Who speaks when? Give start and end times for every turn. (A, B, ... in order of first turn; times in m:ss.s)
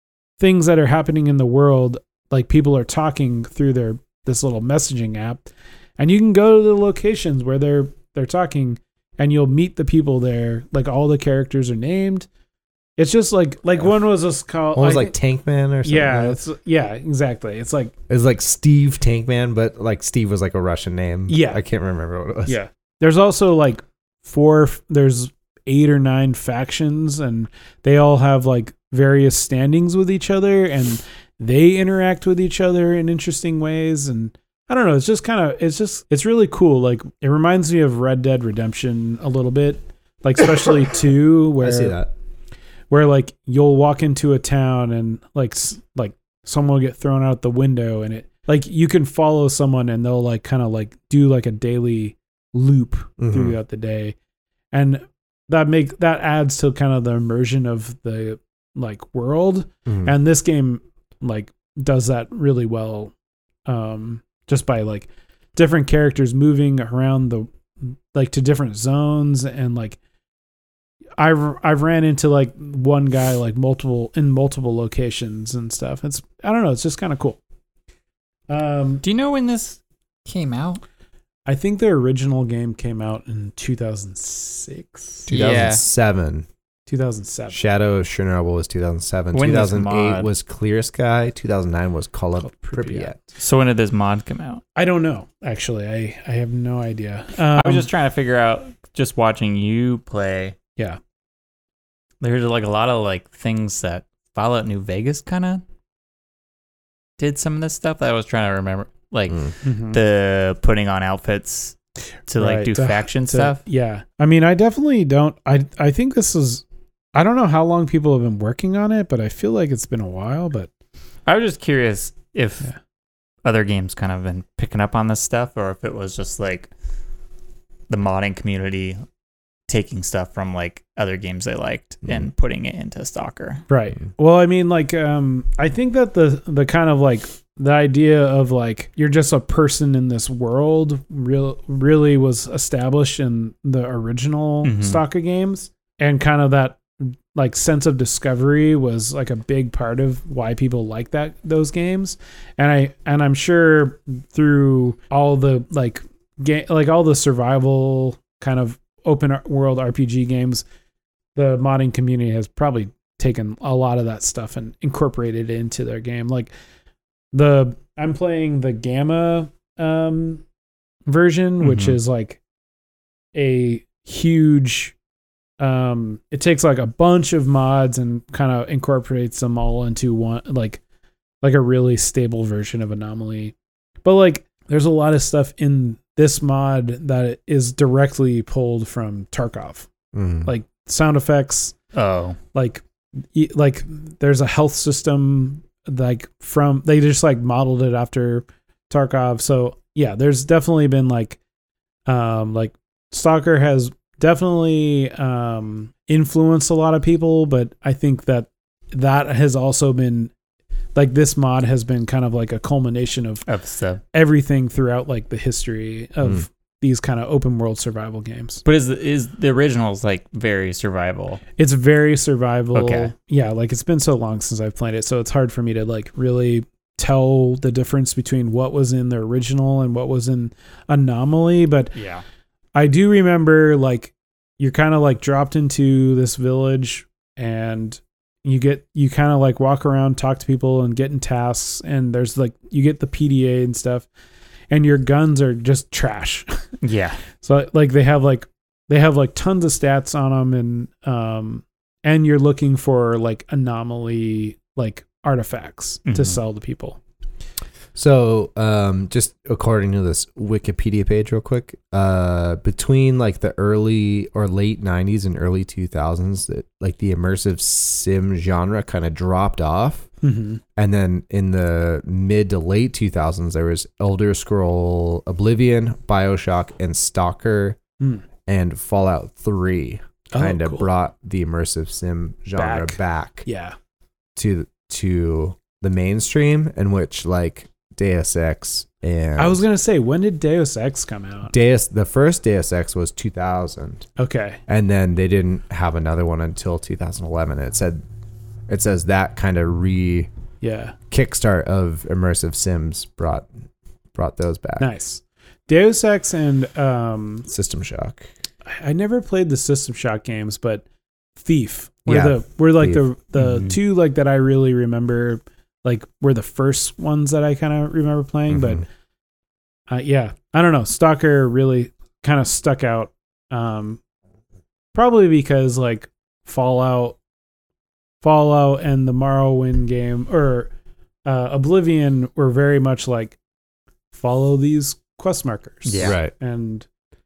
0:00.4-0:12.3 A
0:13.0-0:15.1 A
0:14.8-0:16.4 B
0:15.8-0:17.9 A
0:18.1-0:22.6 B
0:21.3-0:21.6 A
0:22.5-0:42.0 A
0:41.6-0:42.1 B
0:42.9-0:54.2 A
0:53.2-0:53.6 B
0:54.7-1:03.1 A
1:03.7-1:10.0 A
1:11.2-1:17.4 A
1:18.5-1:19.0 A
1:19.0-1:20.8 C
1:21.5-1:25.3 A
1:25.3-1:26.5 B
1:25.3-1:25.8 C
1:26.9-1:27.6 A
1:27.5-1:33.2 B
1:29.3-1:30.3 C
1:32.4-1:33.1 A
1:33.4-1:34.6 C
1:34.8-1:37.9 A
1:37.5-1:40.6 C
1:42.2-1:45.6 C
1:47.2-1:51.8 C
1:49.6-1:50.0 A
1:52.3-1:53.6 C
1:52.4-1:56.6 A
1:57.1-2:00.7 A
2:01.3-2:02.7 C
2:03.4-2:06.7 C
2:07.9-2:09.0 C
2:09.7-2:13.6 C
2:13.7-2:40.6 A
2:24.6-2:25.0 C
2:41.4-2:46.5 A
2:47.3-2:50.4 A
2:51.1-2:52.4 A
2:51.6-2:52.0 C
2:53.3-2:54.9 A
2:55.6-3:00.8 A
3:01.4-3:09.9 A
3:10.1-3:10.5 B
3:10.4-3:11.8 A
3:12.0-3:12.4 C
3:12.5-3:12.8 A
3:13.3-3:21.4 A
3:22.1-3:30.3 A
3:31.0-3:33.5 A
3:33.5-3:34.0 C
3:34.1-3:38.6 A
3:38.6-3:41.4 C
3:41.6-3:52.0 A
3:42.7-3:43.1 C
3:52.0-3:52.2 C
3:52.8-4:04.1 A
4:04.7-4:06.6 A
4:06.8-4:07.2 C
4:07.4-4:17.0 A
4:16.1-4:16.4 C
4:18.0-4:30.1 B
4:30.2-4:30.6 A
4:30.8-4:37.8 B
4:38.0-4:38.2 A
4:38.5-4:43.5 B
4:40.3-4:40.9 A
4:42.6-4:43.8 A
4:44.4-4:49.6 B
4:49.4-4:51.6 A
4:51.5-4:54.1 B
4:54.2-4:54.6 A
4:54.7-4:58.0 B
4:58.7-5:00.3 B
5:00.6-5:01.0 A
5:01.1-5:03.5 B
5:04.2-5:04.9 B
5:04.8-5:07.5 A
5:07.5-5:08.3 B
5:08.7-5:10.8 A
5:11.4-5:18.8 A
5:12.1-5:13.0 B
5:13.4-5:13.8 C
5:18.5-5:18.8 B
5:19.9-5:24.0 A
5:24.9-5:27.2 A
5:28.2-5:30.7 A
5:31.2-5:33.4 A
5:34.1-5:36.9 A
5:35.8-5:36.2 C
5:36.0-5:36.3 B